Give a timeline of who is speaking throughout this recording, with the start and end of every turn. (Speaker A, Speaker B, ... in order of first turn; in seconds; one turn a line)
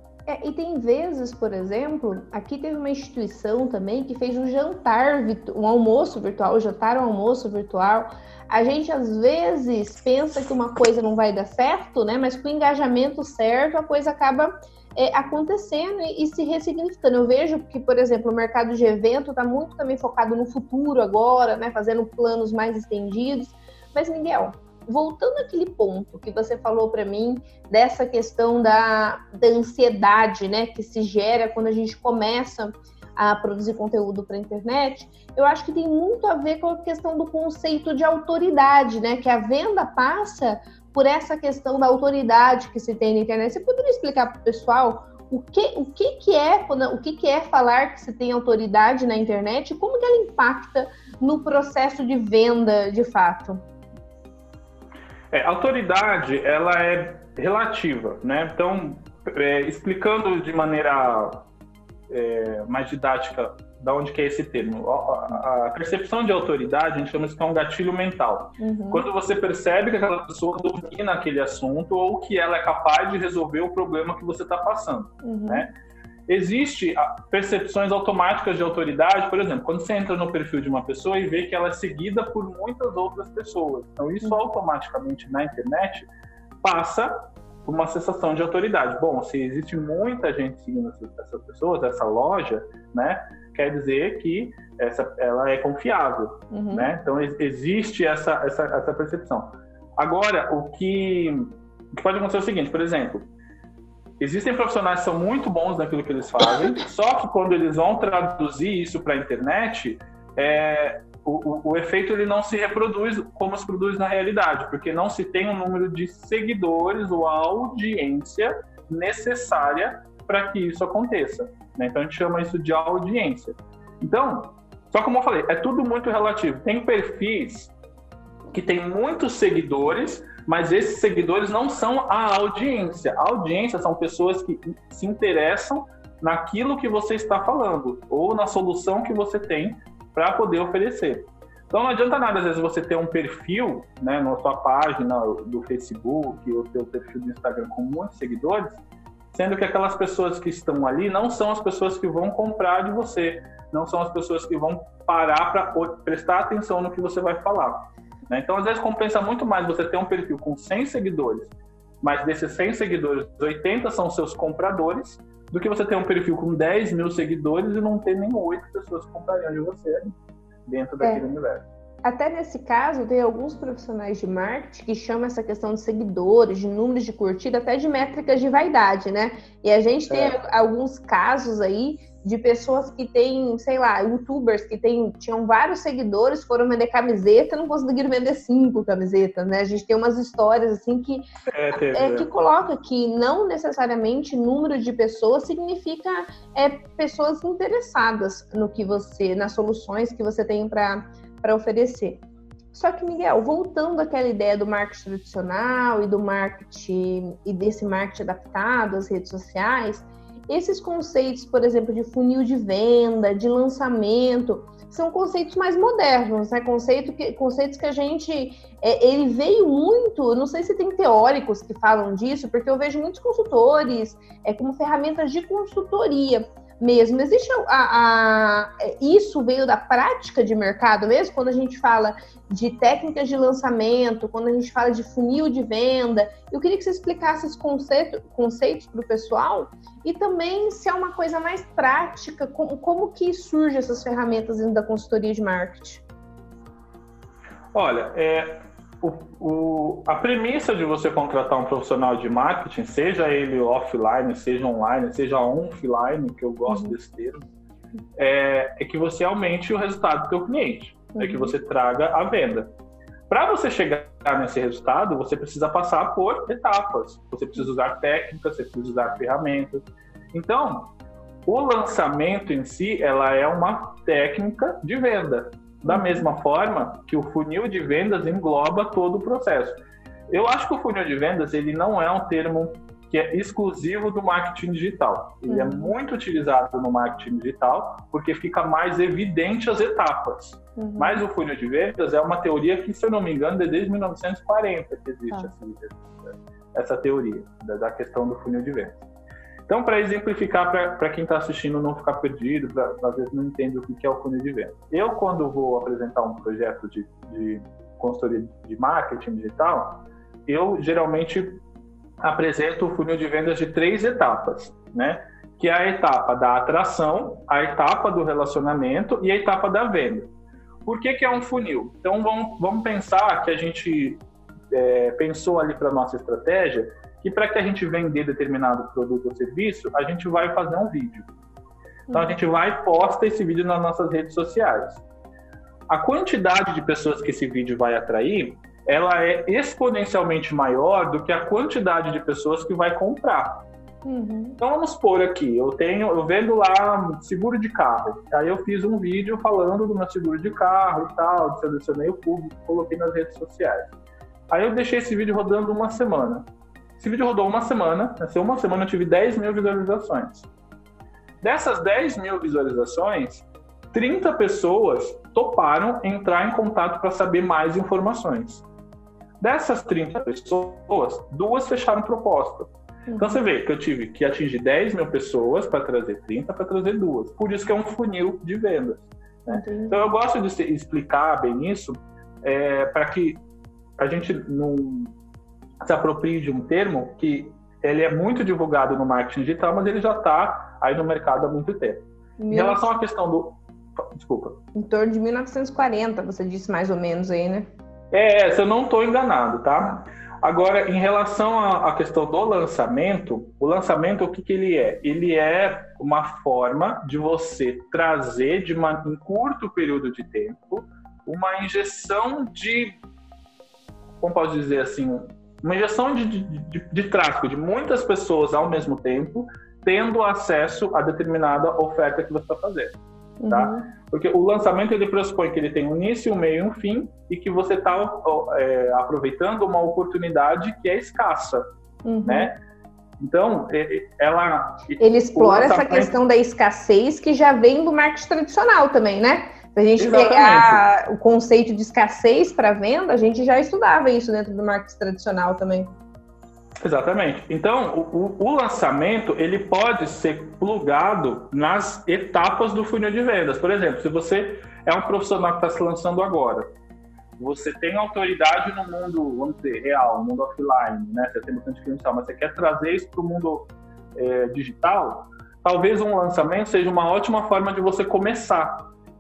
Speaker A: 0.3-53.6
Speaker B: 55.3-61.5
Speaker B: 62.1-75.7
Speaker A: 68.6-69.0
Speaker A: 75.2-75.7
Speaker B: 76.3-86.1
Speaker B: 86.6-103.3
Speaker A: 96.5-96.9
Speaker B: 104.2-127.7
Speaker B: 128.5-148.8
Speaker B: 149.3-171.7
Speaker A: 172.0-202.2
Speaker B: 180.1-180.4
Speaker B: 191.5-192.3
Speaker A: 202.7-246.0
Speaker B: 247.7-257.5
Speaker A: 256.7-257.0
Speaker B: 258.2-262.7
Speaker A: 261.1-261.5
Speaker B: 263.3-270.9
Speaker B: 271.5-299.0
Speaker A: 275.9-276.3
Speaker A: 285.5-285.9
Speaker A: 290.8-291.2
Speaker B: 299.7-311.6
Speaker B: 312.2-320.3
Speaker B: 320.9-324.2
Speaker B: 324.7-331.3
Speaker A: 332.1-332.4
Speaker B: 332.1-335.0
Speaker B: 335.9-343.7
Speaker A: 344.1-344.6
Speaker B: 344.6-353.9
Speaker B: 354.5-356.5
Speaker B: 357.0-360.5
Speaker B: 361.4-368.6
Speaker B: 369.4-383.4
Speaker A: 373.1-373.4
Speaker A: 379.5-380.1
Speaker B: 384.0-385.1
Speaker B: 385.8-394.6
Speaker A: 392.4-392.8
Speaker A: 394.7-397.7
Speaker B: 398.1-413.0
Speaker B: 414.2-423.0
Speaker A: 423.4-423.9
Speaker B: 423.5-431.7
Speaker A: 432.1-432.5
Speaker B: 432.2-432.6
Speaker B: 433.2-436.1
Speaker A: 435.0-445.9
Speaker B: 440.0-440.9
Speaker B: 446.8-456.7
Speaker B: 457.4-468.9